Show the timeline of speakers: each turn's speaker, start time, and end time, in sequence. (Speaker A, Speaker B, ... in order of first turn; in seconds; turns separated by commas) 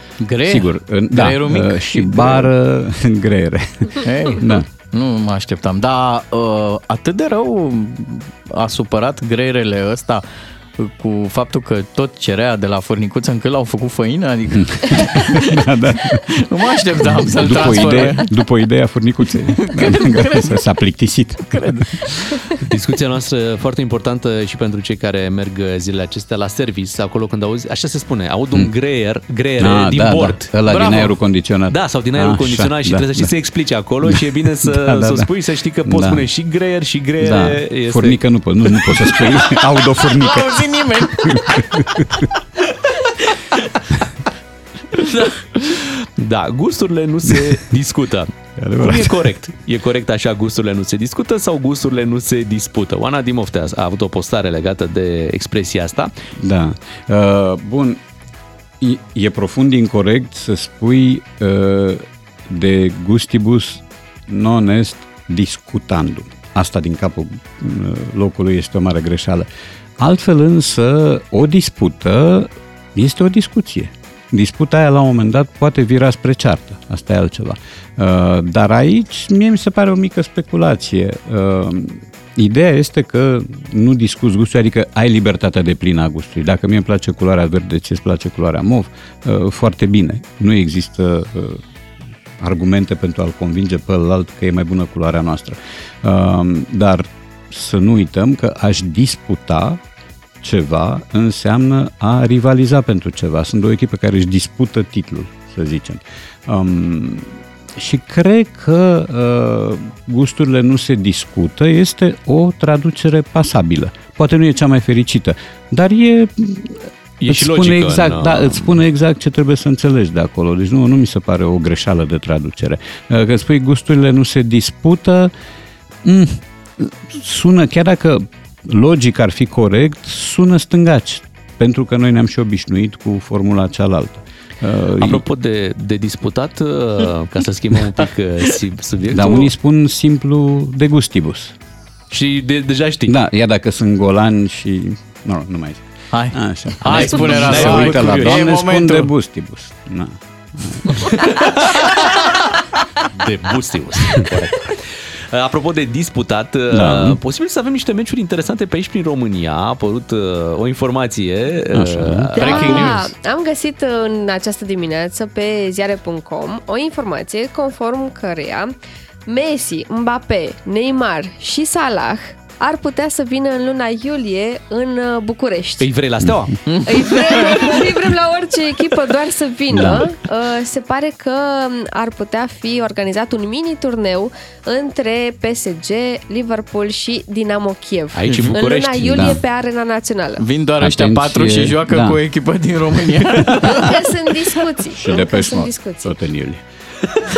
Speaker A: 0.2-2.5, Speaker B: 0.4-4.7, Speaker A: 4.0-10.2, Speaker A: 10.8-15.7, Speaker B: 14.6-16.2, Speaker A: 16.2-18.3, Speaker B: 17.0-22.1, Speaker A: 19.6-20.4, Speaker A: 21.5-22.1, Speaker C: 22.5-31.1, Speaker B: 29.6-33.3, Speaker C: 31.7-38.2, Speaker B: 34.0-35.3, Speaker B: 35.9-36.3, Speaker B: 37.2-42.3, Speaker C: 38.8-39.1, Speaker A: 40.1-41.9, Speaker A: 44.9-45.4, Speaker C: 45.5-56.1, Speaker B: 48.6-49.3, Speaker B: 56.4-58.0, Speaker B: 58.8-69.5, Speaker B: 70.0-91.6, Speaker B: 92.4-99.8, Speaker B: 100.4-125.3, Speaker C: 117.2-118.8, Speaker B: 126.0-135.2, Speaker C: 135.0-139.5, Speaker B: 139.1-141.5, Speaker C: 142.1-143.2, Speaker B: 143.1-151.2, Speaker A: 146.1-149.1, Speaker C: 146.8-148.4, Speaker C: 151.1-152.5, Speaker C: 153.1-163.0, Speaker B: 156.7-157.2, Speaker B: 161.7-162.4, Speaker D: 162.3-175.9, Speaker A: 162.4-163.0, Speaker C: 175.8-176.5, Speaker A: 176.7-177.7, Speaker D: 176.8-190.4, Speaker B: 179.7-180.0, Speaker C: 188.1-189.3, Speaker A: 188.3-188.6, Speaker B: 189.0-189.4, Speaker A: 190.4-193.7, Speaker B: 190.8-192.2, Speaker D: 193.6-196.1, Speaker B: 194.9-196.6